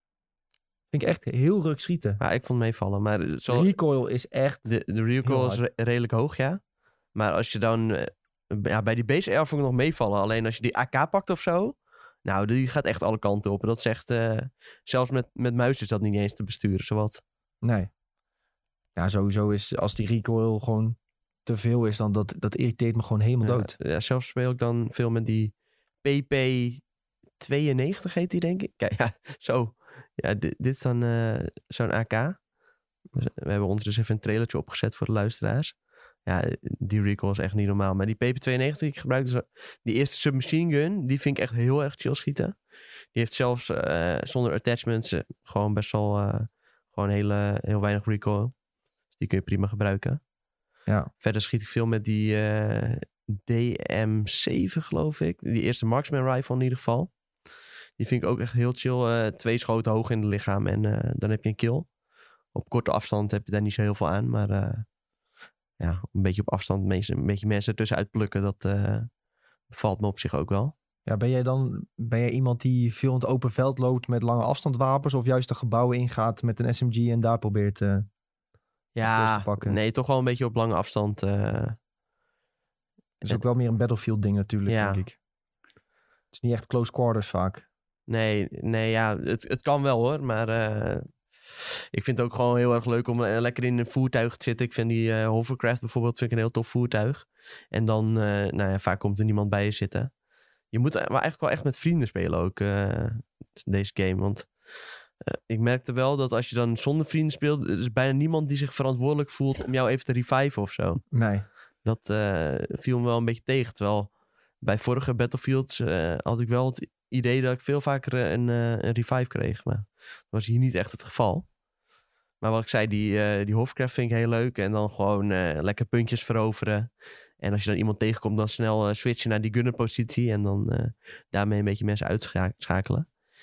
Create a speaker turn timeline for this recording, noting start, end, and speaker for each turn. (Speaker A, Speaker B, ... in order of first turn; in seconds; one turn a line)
Speaker A: 0.9-2.2
Speaker B: 2.2-3.7
Speaker A: 3.5-4.7
Speaker B: 4.7-6.6
Speaker A: 5.2-5.6
Speaker B: 7.1-17.2
Speaker A: 17.6-17.9
Speaker A: 18.9-23.8
Speaker B: 23.4-26.8
Speaker B: 27.4-32.4
Speaker B: 33.1-42.5
Speaker B: 43.1-48.5
Speaker B: 49.1-50.2
Speaker B: 51.2-57.1
Speaker B: 58.0-61.9
Speaker B: 62.5-64.9
Speaker B: 65.8-69.1
Speaker B: 69.7-70.7
Speaker A: 71.0-78.1
Speaker B: 78.9-81.8
Speaker A: 79.0-79.8
Speaker A: 83.2-85.2
Speaker B: 84.7-85.0
Speaker A: 86.3-87.7
Speaker B: 88.1-91.1
Speaker B: 91.9-100.1
Speaker B: 100.7-104.5
Speaker B: 105.2-111.0
Speaker A: 111.1-111.5
Speaker B: 111.8-121.5
Speaker B: 122.4-133.1